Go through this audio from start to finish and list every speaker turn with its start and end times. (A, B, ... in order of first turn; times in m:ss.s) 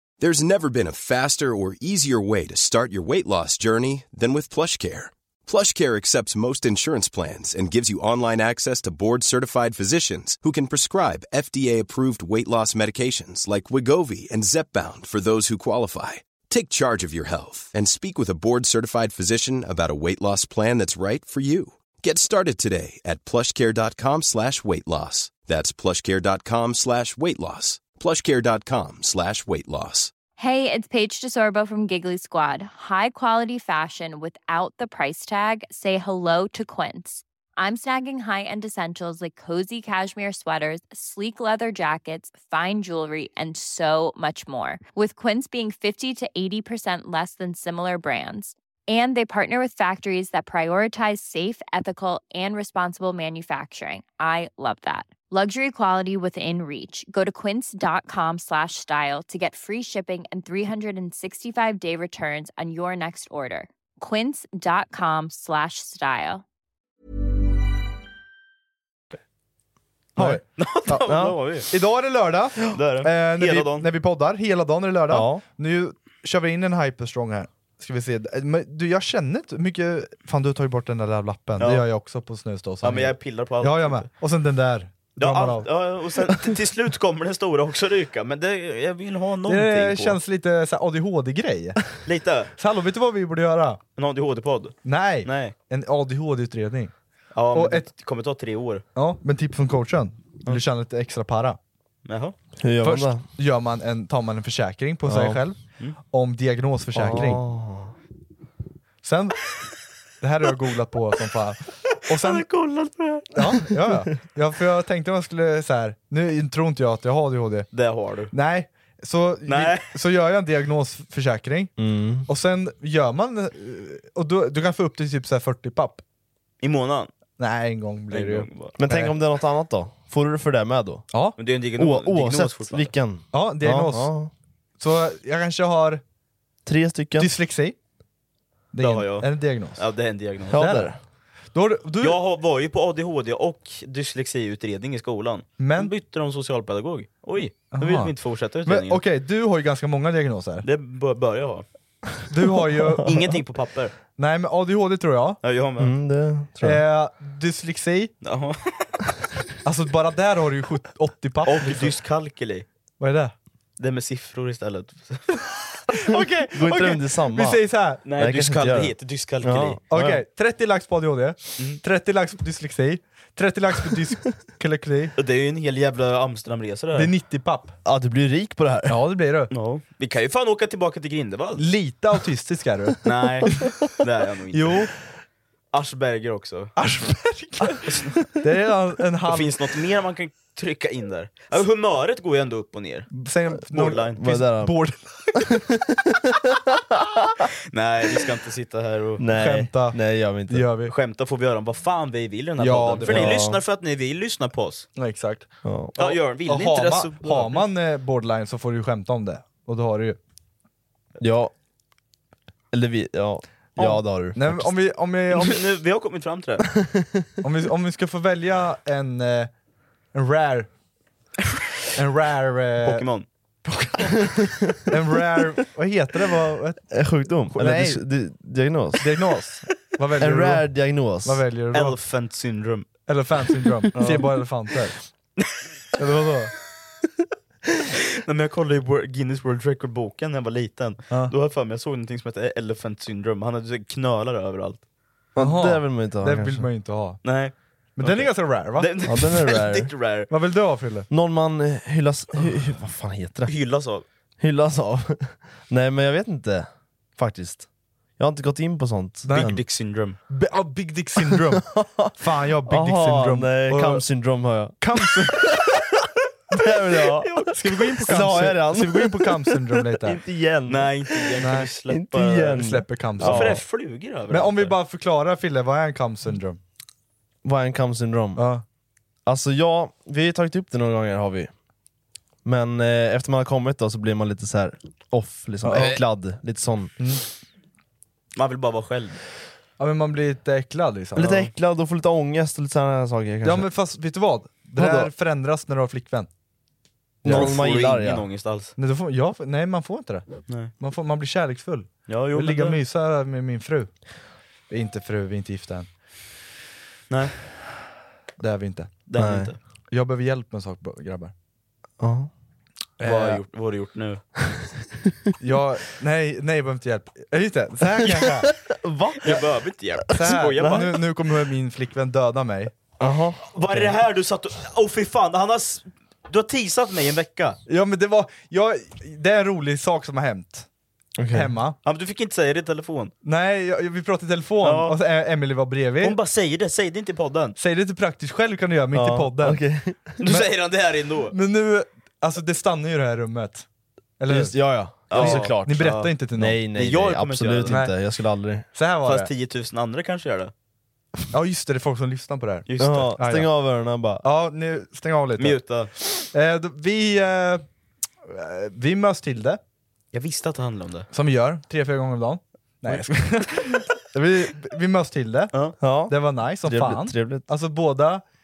0:00.2-0:30.1 A
0:30.4-1:06.4 B
1:10.2-1:11.7 C
1:10.2-1:25.7 D
1:11.1-1:11.4 E
1:12.7-1:13.9 C
1:15.1-1:15.4 E
1:21.6-1:21.9 C
1:22.8-1:24.1 C
1:25.2-1:30.2 C
1:29.5-1:31.8 D
1:32.0-1:32.5 C
1:32.6-1:33.8 D
1:34.0-1:35.6 C
1:34.8-1:36.9 D
1:37.3-1:38.8 C
1:37.5-1:37.9 D
1:39.0-1:41.6 D
1:42.1-1:42.4 C
1:42.6-1:43.2 E
1:42.8-1:47.4 D
1:45.1-1:45.4 E
1:47.0-1:48.0 E
1:49.0-1:49.4 D
1:50.2-1:52.5 D
1:52.1-1:53.3 C
1:53.3-1:57.7 D
1:57.7-1:58.3 C
1:58.3-2:01.7 D
1:59.5-1:59.9 C
2:01.8-2:02.3 E
2:02.3-2:06.0 D
2:06.6-2:07.1 C
2:07.4-2:09.1 D
2:08.1-2:08.8 C
2:08.8-2:11.1 E
2:11.1-2:11.4 D
2:11.4-2:12.9 C
2:11.8-2:14.3 E
2:13.3-2:14.1 D
2:14.8-2:16.0 D
2:16.6-2:17.3 E
2:17.2-2:17.8 D
2:18.7-2:19.8 D
2:18.8-2:20.6 C
2:20.5-2:21.0 E
2:20.6-2:20.9 D
2:21.5-2:22.2 D
2:22.0-2:29.0 C
2:25.6-2:25.9 D
2:27.7-2:28.1 D
2:28.6-2:30.7 D
2:30.6-2:31.7 C
2:32.3-2:33.1 D
2:33.0-2:34.0 C
2:34.2-2:35.4 D
2:35.4-2:35.9 C
2:35.8-2:36.8 E
2:36.6-2:38.1 D
2:38.2-2:39.1 C
2:39.6-2:41.9 D
2:41.5-2:42.7 C
2:43.0-2:43.3 D
2:43.8-2:45.2 C
2:45.9-2:48.0 D
2:46.5-2:47.6 E
2:48.0-2:49.8 C
2:48.2-2:50.2 E
2:49.9-2:55.2 D
2:55.2-2:57.1 C
2:57.0-2:57.8 D
2:57.8-2:59.0 E
2:58.9-2:59.5 D
2:59.5-3:01.6 C
3:01.6-3:03.0 D
3:03.0-3:04.9 C
3:04.5-3:04.9 D
3:05.7-3:06.7 C
3:06.8-3:09.6 D
3:07.9-3:08.2 C
3:09.3-3:13.1 C
3:13.1-3:15.5 D
3:13.7-3:14.2 C
3:14.2-3:14.8 E
3:15.4-3:15.9 E
3:17.0-3:17.3 E
3:17.7-3:19.2 C
3:19.2-3:20.7 E
3:19.3-3:20.9 D
3:20.9-3:24.9 C
3:22.6-3:23.4 D
3:23.0-3:23.6 E
3:25.0-3:30.2 D
3:25.6-3:26.0 E
3:26.0-3:27.6 C
3:31.2-3:31.5 E
3:32.7-3:34.7 E
3:33.8-3:35.6 D
3:35.3-3:36.7 C
3:36.8-3:37.2 E
3:37.4-3:39.5 D
3:40.1-3:40.7 D
3:42.0-3:43.0 D
3:42.8-3:43.3 C
3:44.0-3:44.2 D
3:44.9-3:46.8 D
3:46.9-3:49.0 E
3:47.5-3:48.0 D
3:49.0-3:50.7 D
3:50.2-3:51.4 E
3:51.2-3:52.0 D
3:51.7-3:52.9 C
3:53.1-3:55.0 D
3:54.0-3:54.3 E
3:56.0-3:56.5 D
3:58.2-4:04.8 C
4:05.4-4:06.7 E
4:05.4-4:07.2 D
4:07.2-4:10.3 C
4:08.0-4:08.9 D
4:09.1-4:09.9 E
4:10.3-4:11.1 D
4:11.1-4:13.5 E
4:13.5-4:14.0 C
4:14.4-4:17.7 E
4:18.2-4:19.6 E
4:19.3-4:19.5 D
4:19.3-4:20.2 C
4:20.3-4:24.0 D
4:21.2-4:22.1 E
4:22.7-4:25.7 E
4:24.8-4:25.5 D
4:26.5-4:27.3 E
4:27.2-4:27.6 C
4:27.5-4:30.2 D
4:28.1-4:33.6 E
4:30.7-4:32.6 C
4:31.4-4:31.7 D
4:32.5-4:33.6 D
4:33.2-4:34.8 C
4:34.3-4:36.6 D
4:37.4-4:38.4 E
4:38.4-4:38.6 D
4:39.3-4:41.5 E
4:42.4-4:46.9 E
4:45.6-4:46.0 D
4:47.0-4:47.2 D
4:48.4-4:49.2 C
4:49.8-4:51.5 D
4:51.2-4:53.7 E
4:53.4-4:56.3 D
4:54.8-4:55.1 E
4:57.2-4:58.2 E
4:57.2-4:58.7 C
4:57.2-4:57.5 D
4:58.8-5:00.3 D
5:00.8-5:03.9 D
5:02.1-5:02.8 C
5:04.7-5:05.9 D
5:08.4-5:08.9 D
5:09.1-5:09.6 C
5:09.2-5:09.5 E
5:09.9-5:11.3 D
5:12.0-5:12.3 E
5:13.0-5:13.4 D
5:13.0-5:14.2 C
5:15.4-5:18.5 D
5:18.0-5:19.4 E
5:19.2-5:21.0 C
5:20.1-5:22.7 D
5:20.2-5:20.9 E
5:23.0-5:23.9 E
5:23.5-5:27.6 C
5:27.7-5:30.7 D
5:31.2-5:31.5 E
5:31.3-5:31.8 D
5:31.8-5:33.1 C
5:33.2-5:36.2 D
5:34.6-5:35.0 C
5:36.0-5:37.6 C
5:37.6-5:39.6 D
5:38.9-5:40.2 E
5:40.2-5:41.3 C
5:40.2-5:40.5 D
5:41.3-5:43.7 D
5:44.2-5:44.6 D
5:44.3-5:48.7 E
5:45.1-5:46.6 D
5:45.1-5:46.1 C
5:46.8-5:47.8 C
5:47.7-5:47.9 D
5:48.7-5:49.3 D
5:49.0-5:50.5 C
5:51.3-5:53.5 D
5:52.7-5:53.1 C
5:52.8-5:54.2 E
5:54.2-5:55.6 D
5:55.4-5:55.9 C
5:56.3-5:57.6 D
5:58.3-5:59.6 D
6:00.1-6:01.1 C
6:01.1-6:03.9 D
6:04.1-6:04.5 E
6:04.5-6:05.6 D
6:05.8-6:07.5 E
6:06.1-6:08.2 D